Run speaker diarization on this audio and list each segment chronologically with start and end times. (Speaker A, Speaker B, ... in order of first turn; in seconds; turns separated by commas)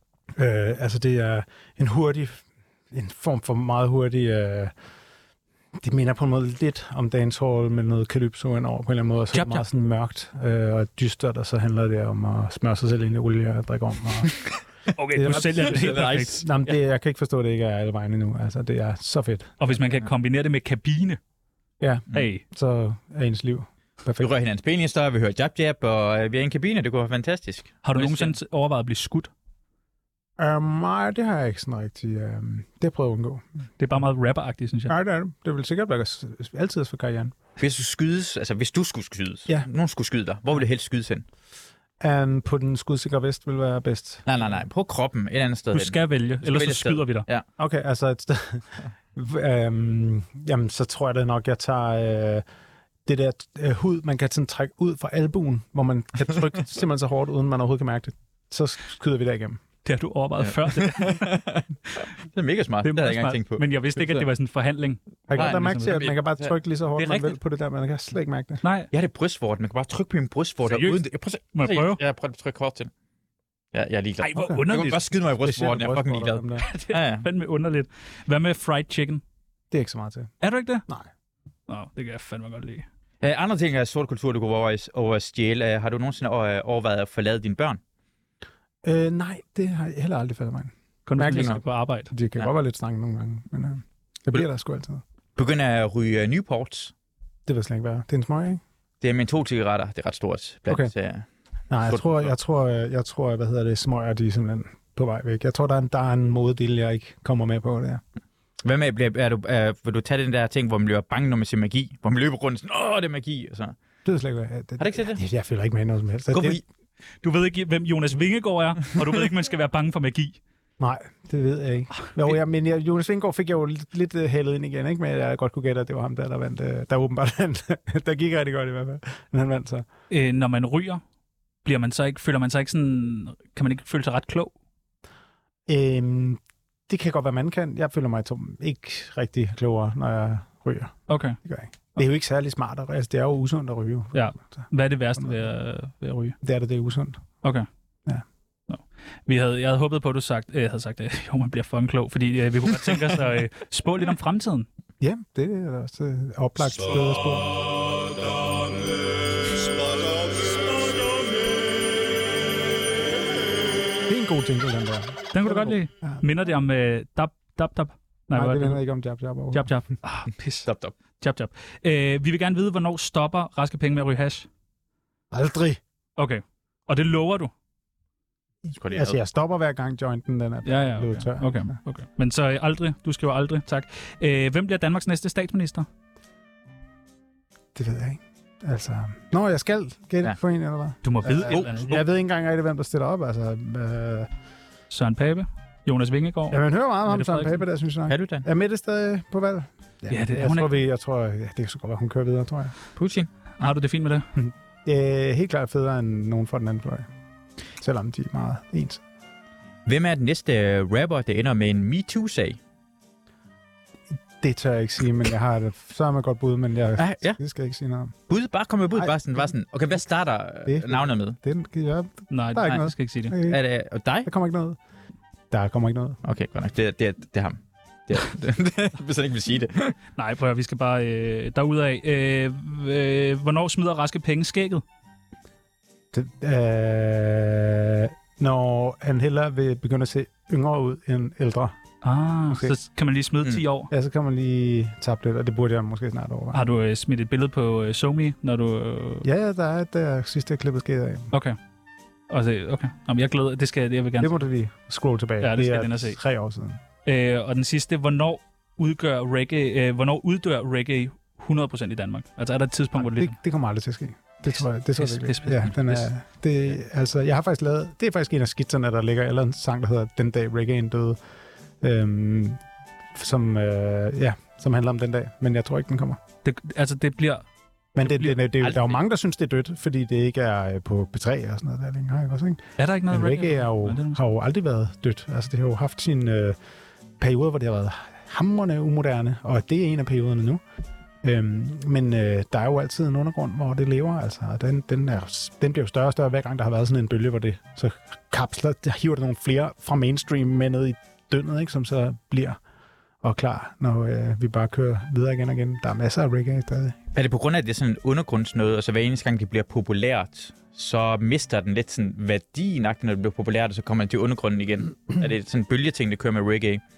Speaker A: 0.3-4.7, Speaker A: 5.8-14.4, Speaker B: 9.3-9.7, Speaker B: 14.9-16.5, Speaker A: 15.1-19.7, Speaker C: 15.3-16.4, Speaker B: 19.6-21.2, Speaker A: 21.8-24.3, Speaker B: 22.1-22.4, Speaker C: 24.2-28.3, Speaker B: 27.8-29.3, Speaker A: 30.4-33.5, Speaker B: 33.8-34.9, Speaker A: 34.9-37.4, Speaker C: 37.6-41.2, Speaker A: 42.0-44.2, Speaker C: 44.2-47.4, Speaker B: 45.7-47.2, Speaker A: 47.6-52.4, Speaker A: 53.0-59.6, Speaker B: 59.8-61.4, Speaker C: 60.4-61.7, Speaker C: 62.3-64.2, Speaker B: 62.8-66.1, Speaker A: 65.3-68.6, Speaker C: 65.4-66.5, Speaker B: 68.6-68.9, Speaker C: 68.9-72.9, Speaker B: 70.6-71.0, Speaker B: 71.5-72.0, Speaker C: 73.7-77.3, Speaker B: 74.2-75.0, Speaker A: 74.4-74.6, Speaker A: 75.4-76.6, Speaker B: 76.6-79.2, Speaker A: 79.7-80.3, Speaker B: 80.4-80.8, Speaker B: 81.7-82.8, Speaker C: 83.2-87.8, Speaker A: 88.8-95.0, Speaker B: 91.0-92.1, Speaker C: 91.3-91.6, Speaker C: 95.3-96.9, Speaker A: 97.5-98.6, Speaker C: 99.0-101.2, Speaker A: 101.7-108.0, Speaker C: 101.8-102.3, Speaker C: 108.6-113.7, Speaker A: 114.0-116.6, Speaker C: 114.8-115.2, Speaker C: 116.3-116.6, Speaker B: 117.2-120.4, Speaker A: 120.8-129.8, Speaker B: 130.1-131.0, Speaker B: 131.6-134.5, Speaker A: 135.7-144.7, Speaker B: 141.1-141.4, Speaker B: 144.1-146.4, Speaker A: 146.4-147.2, Speaker B: 148.7-154.7, Speaker A: 155.0-157.5, Speaker A: 164.1-166.2, Speaker B: 165.3-168.8, Speaker A: 168.3-169.7, Speaker B: 169.5-170.7, Speaker C: 170.6-170.9, Speaker B: 171.2-174.5, Speaker A: 175.3-175.8, Speaker B: 176.2-177.5, Speaker A: 178.7-181.8, Speaker C: 178.8-179.2, Speaker B: 180.6-185.9, Speaker A: 187.7-194.3, Speaker B: 191.0-192.0, Speaker C: 191.5-192.0, Speaker B: 194.9-197.6, Speaker A: 196.5-202.7, Speaker C: 198.1-198.4, Speaker B: 200.1-200.7, Speaker C: 202.9-203.7, Speaker B: 203.6-204.3, Speaker A: 204.3-207.1, Speaker A: 207.8-209.0, Speaker C: 209.8-212.6, Speaker A: 214.4-218.1, Speaker C: 217.0-217.4, Speaker C: 218.3-221.4, Speaker A: 218.9-219.5, Speaker A: 220.6-223.6, Speaker B: 222.3-223.3, Speaker C: 223.4-224.3, Speaker A: 224.2-224.8, Speaker A: 225.5-226.2, Speaker C: 226.2-230.0, Speaker B: 230.2-234.8, Speaker A: 236.1-241.8, Speaker B: 242.0-243.9, Speaker A: 242.5-242.7, Speaker A: 243.9-246.6, Speaker B: 246.5-249.3, Speaker A: 249.2-251.3, Speaker B: 251.3-251.6, Speaker B: 252.3-254.4, Speaker A: 254.2-256.8, Speaker B: 255.4-256.2, Speaker B: 257.0-263.4, Speaker A: 263.0-271.2, Speaker B: 265.0-266.1, Speaker A: 271.8-272.6, Speaker A: 273.1-276.2, Speaker B: 276.4-277.4, Speaker A: 277.9-286.6, Speaker B: 278.0-278.4, Speaker C: 278.6-278.9, Speaker B: 282.8-284.2, Speaker A: 287.2-290.6, Speaker A: 291.2-302.6, Speaker A: 303.2-307.0, Speaker C: 307.1-316.8